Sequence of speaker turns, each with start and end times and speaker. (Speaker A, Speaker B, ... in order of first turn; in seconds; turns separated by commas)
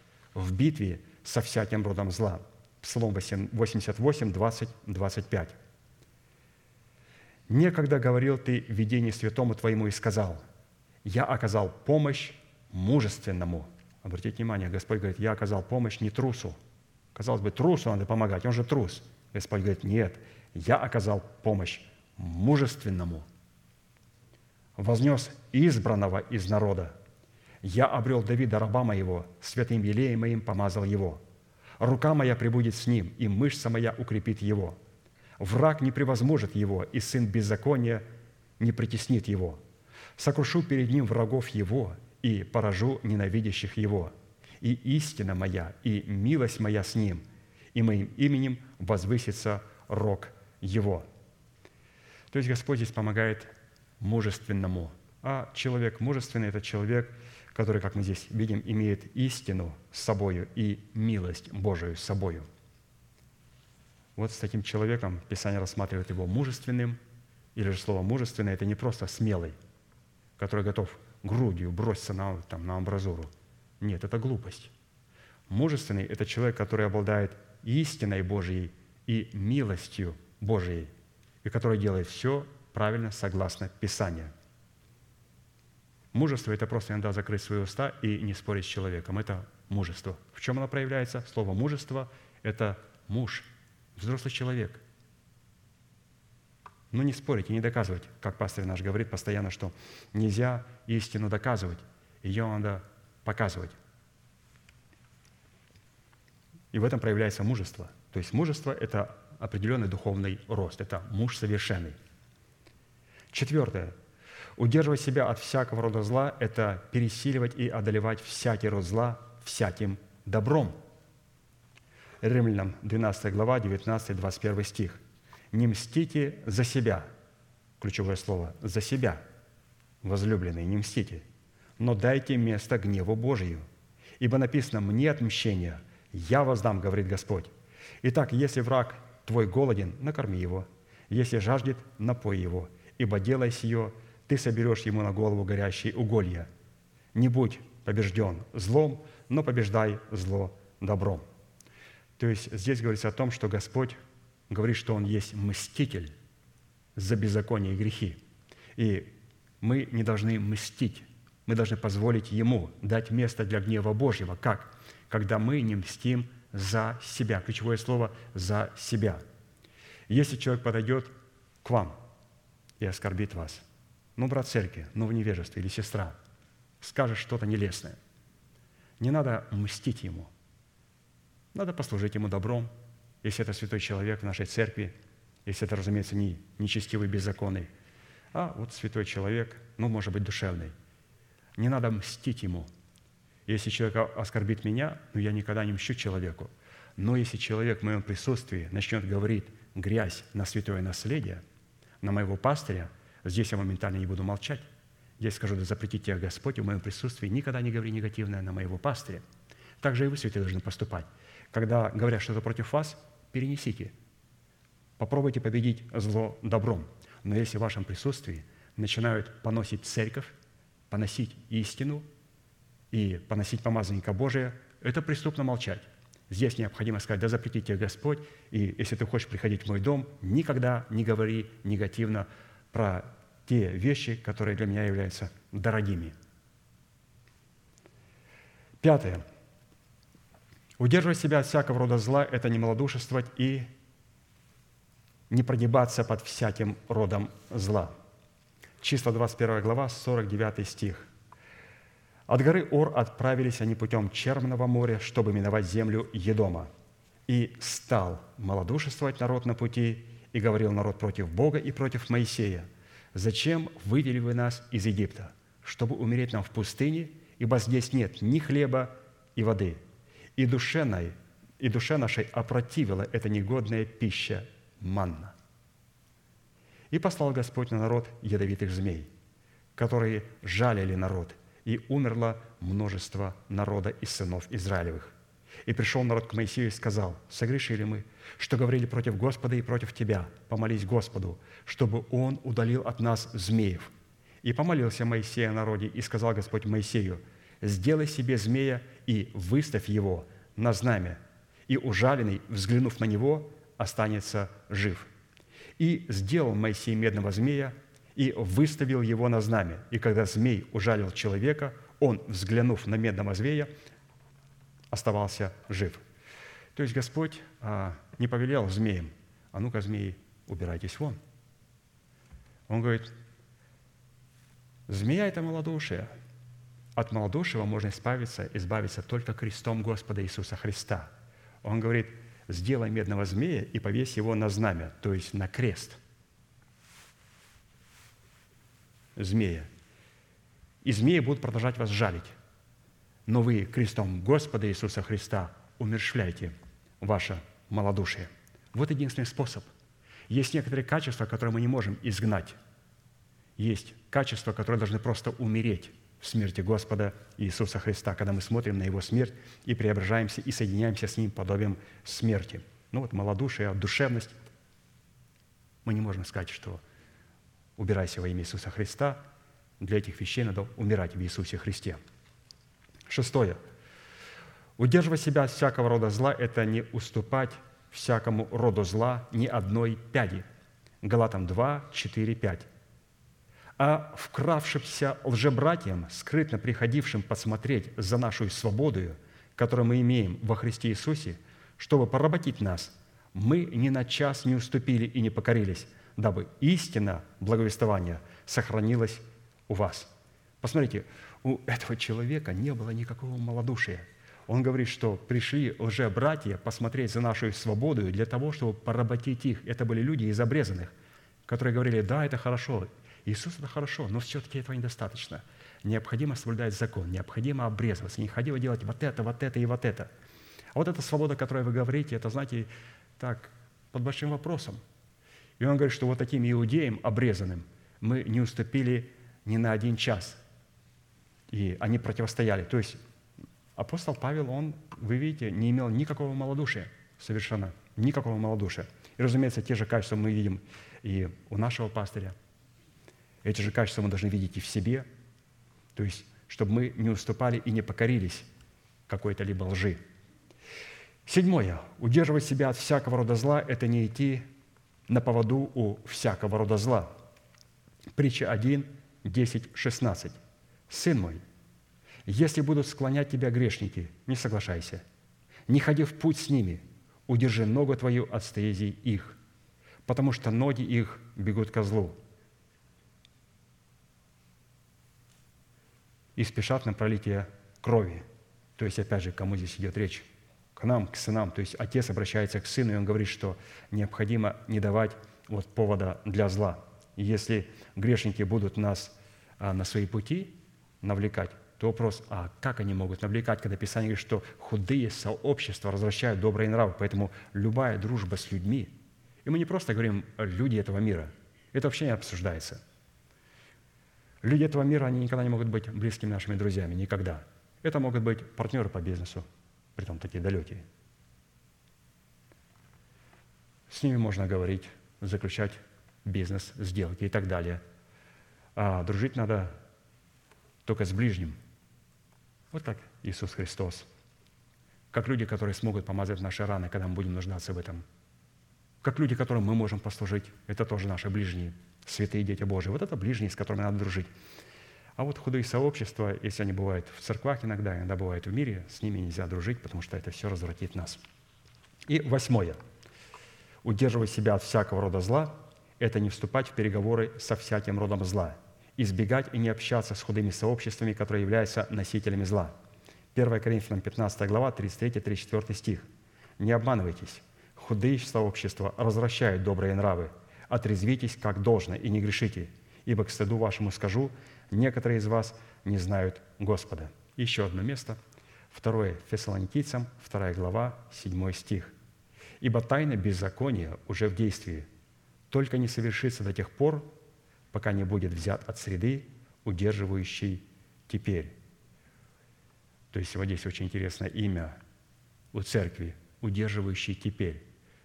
Speaker A: 0.3-5.6, Speaker A: 7.5-10.4, Speaker A: 11.0-16.6, Speaker A: 17.1-23.3, Speaker A: 24.8-26.9, Speaker A: 27.6-31.2, Speaker A: 31.8-34.8, Speaker A: 35.4-38.0, Speaker A: 38.6-39.6, Speaker A: 40.2-47.2, Speaker A: 47.7-51.1, Speaker A: 52.3-62.5, Speaker A: 64.2-67.0, Speaker A: 67.5-69.5, Speaker A: 70.4-74.7, Speaker A: 75.5-80.9, Speaker A: 81.4-84.3, Speaker A: 86.1-94.8, Speaker A: 96.9-103.8, Speaker A: 106.7-112.0, Speaker A: 113.3-113.9, Speaker A: 114.6-120.8, Speaker A: 122.2-125.0, Speaker A: 125.5-127.1, Speaker A: 127.8-129.2, Speaker A: 130.0-131.2, Speaker A: 131.8-133.6, Speaker A: 134.2-137.5, Speaker A: 138.0-146.5, Speaker A: 147.1-151.2, Speaker A: 152.2-154.0, Speaker A: 154.5-156.1, Speaker A: 156.9-158.2, Speaker A: 158.8-159.1, Speaker A: 159.6-169.2, Speaker A: 170.1-171.1, Speaker A: 171.6-172.0, Speaker A: 172.8-173.6, Speaker A: 174.2-176.2, Speaker A: 176.8-178.0, Speaker A: 179.0-180.3, Speaker A: 181.5-182.7, Speaker A: 183.2-184.9, Speaker A: 185.4-187.7, Speaker A: 188.3-190.7, Speaker A: 191.6-192.7, Speaker A: 193.5-201.4, Speaker A: 202.0-204.7, Speaker A: 205.2-209.2, Speaker A: 209.8-213.9, Speaker A: 215.0-220.3, Speaker A: 220.9-222.1, Speaker A: 222.9-236.1, Speaker A: 238.8-239.2, Speaker A: 240.8-243.7, Speaker A: 245.3-247.9, Speaker A: 248.8-251.1, Speaker A: 252.3-256.7, Speaker A: 257.3-269.8, Speaker A: 270.4-275.3, Speaker A: 276.9-279.1, Speaker A: 279.8-285.1, Speaker A: 285.6-293.9, Speaker A: 294.4-305.1, Speaker A: 305.8-313.7, Speaker A: 314.9-316.0, Speaker A: 316.8-321.2, Speaker A: 322.7-323.1, Speaker A: 324.9-326.1, Speaker A: 326.9-331.1, Speaker A: 331.6-336.0, Speaker A: 339.2-339.7, Speaker A: 340.8-342.3, Speaker A: 343.3-349.7, Speaker A: 350.3-352.6, Speaker A: 353.6-364.4, Speaker A: 365.8-366.8, Speaker A: 367.8-369.2, Speaker A: 369.8-372.0, Speaker A: 373.1-373.6, Speaker A: 374.8-380.4, Speaker A: 381.0-382.7, Speaker A: 383.8-400.1, Speaker A: 400.6-410.9, Speaker A: 411.5-420.1, Speaker A: 420.7-424.8, Speaker A: 425.6-430.4, Speaker A: 431.5-433.0, Speaker A: 433.8-442.3, Speaker A: 443.4-445.1, Speaker A: 445.9-448.5, Speaker A: 449.1-450.0, Speaker A: 451.2-454.4, Speaker A: 455.1-457.1, Speaker A: 458.1-460.4, Speaker A: 460.9-461.4, Speaker A: 462.2-465.0, Speaker A: 465.7-469.4, Speaker A: 470.1-472.2, Speaker A: 476.4-478.2, Speaker A: 478.8-498.9, Speaker A: 499.4-502.8, Speaker A: 504.4-509.4, Speaker A: 509.9-510.8, Speaker A: 513.9-517.8, Speaker A: 518.8-519.7, Speaker A: 520.8-521.5, Speaker A: 522.7-524.1, Speaker A: 525.1-528.0, Speaker A: 529.0-534.3, Speaker A: 535.2-541.2, Speaker A: 542.1-542.8, Speaker A: 543.8-552.7, Speaker A: 553.3-556.0, Speaker A: 556.6-568.2, Speaker A: 568.7-571.9, Speaker A: 572.6-574.9, Speaker A: 575.5-577.1, Speaker A: 577.7-581.5, Speaker A: 583.1-584.8, Speaker A: 585.5-587.6